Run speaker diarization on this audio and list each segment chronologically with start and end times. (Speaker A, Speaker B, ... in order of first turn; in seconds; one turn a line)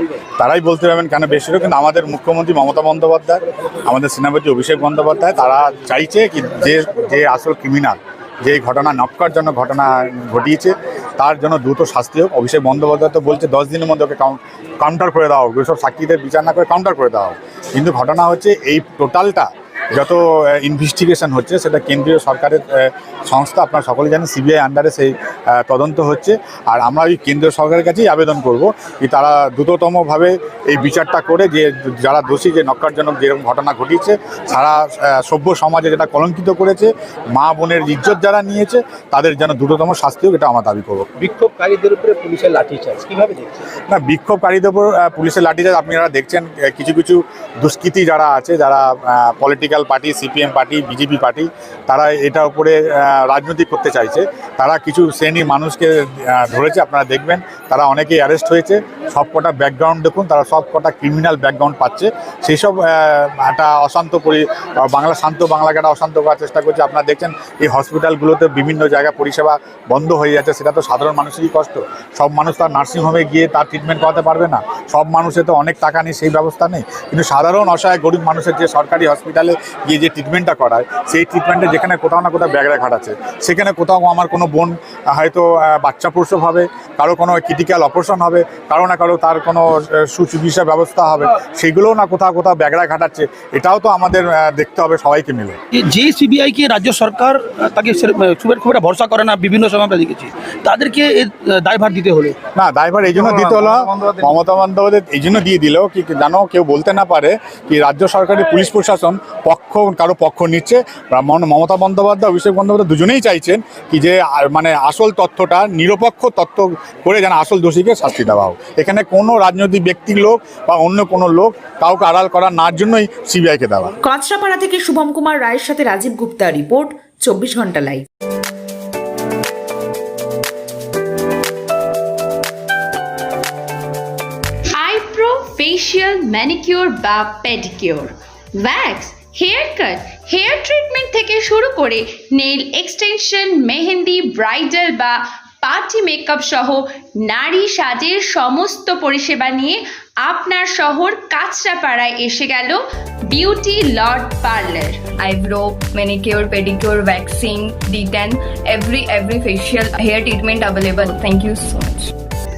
Speaker A: 0.4-41.1
Speaker B: 41.2-43.5
Speaker A: 43.9-95.6
Speaker B: 95.9-102.3
Speaker A: 102.6-123.9
Speaker C: 124.0-128.1
Speaker D: 134.8-152.8
Speaker D: 153.3-155.0
Speaker E: 155.2-162.1